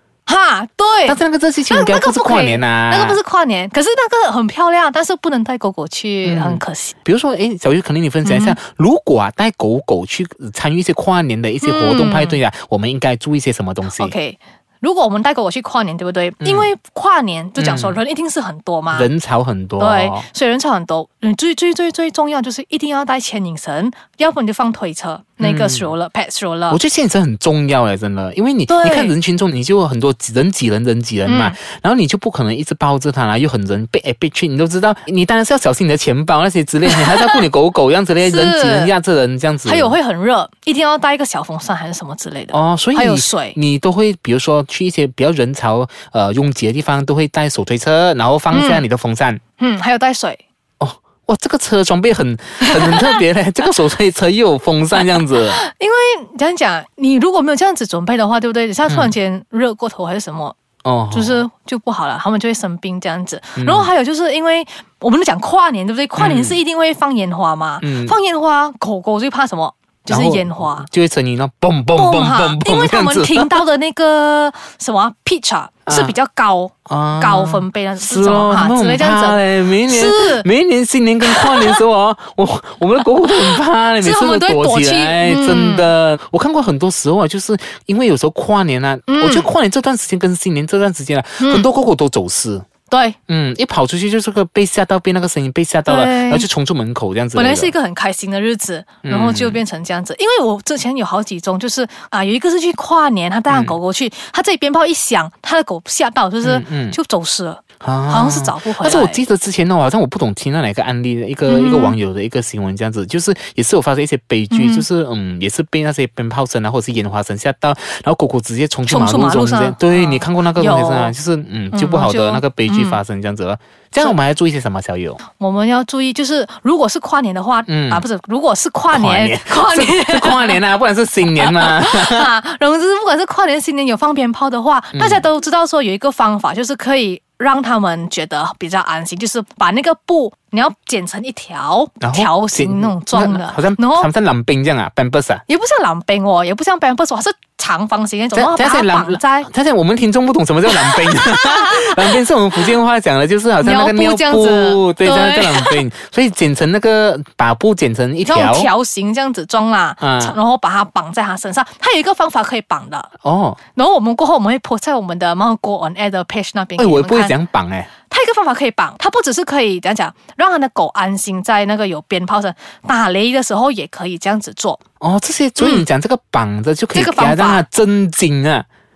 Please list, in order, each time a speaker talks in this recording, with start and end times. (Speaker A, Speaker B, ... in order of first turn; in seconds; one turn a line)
Speaker A: 0.2-1.2
Speaker B: 1.1-3.2
Speaker A: 1.7-6.9
Speaker B: 6.2-14.1
Speaker A: 8.2-8.6
Speaker A: 11.6-12.4
Speaker A: 13.9-19.1
Speaker B: 16.4-16.7
Speaker B: 17.6-18.0
Speaker B: 18.9-20.2
Speaker A: 19.8-26.8
Speaker B: 25.4-25.9
Speaker B: 26.7-39.9
Speaker A: 28.7-29.1
Speaker A: 31.2-31.6
Speaker A: 36.9-37.4
Speaker A: 38.2-38.9
Speaker A: 39.6-43.6
Speaker B: 42.5-49.4
Speaker A: 48.5-48.8
Speaker A: 49.6-50.4
Speaker B: 50.8-55.6
Speaker A: 52.6-53.2
Speaker A: 55.4-60.6
Speaker B: 58.9-59.1
Speaker B: 60.8-61.4
Speaker A: 61.1-70.9
Speaker B: 63.6-63.9
Speaker B: 66.2-66.6
Speaker B: 67.8-68.1
Speaker B: 70.1-73.6
Speaker A: 71.9-80.5
Speaker B: 75.9-76.1
Speaker B: 76.9-92.6
Speaker A: 81.2-81.8
Speaker A: 83.4-85.9
Speaker A: 89.1-89.5
Speaker A: 91.4-91.7
Speaker A: 92.9-93.2
Speaker B: 93.3-97.7
Speaker A: 95.8-96.5
Speaker A: 97.3-109.2
Speaker B: 99.0-99.6
Speaker B: 103.5-103.8
Speaker B: 106.4-107.0
Speaker B: 107.8-125.2
Speaker A: 111.5-112.0
Speaker A: 114.5-114.9
Speaker A: 118.9-121.1
Speaker A: 121.7-123.0
Speaker A: 125.3-130.6
Speaker B: 127.7-128.0
Speaker B: 128.9-132.3
Speaker A: 131.3-144.1
Speaker B: 134.9-135.2
Speaker B: 142.0-145.4
Speaker A: 145.5-149.5
Speaker B: 148.3-158.7
Speaker A: 150.7-152.6
Speaker A: 153.6-155.8
Speaker A: 158.2-163.1
Speaker B: 160.0-160.4
Speaker B: 163.2-163.6
Speaker A: 163.7-167.3
Speaker B: 166.8-167.9
Speaker A: 168.1-174.8
Speaker B: 175.0-178.6
Speaker A: 175.6-175.8
Speaker A: 176.9-177.6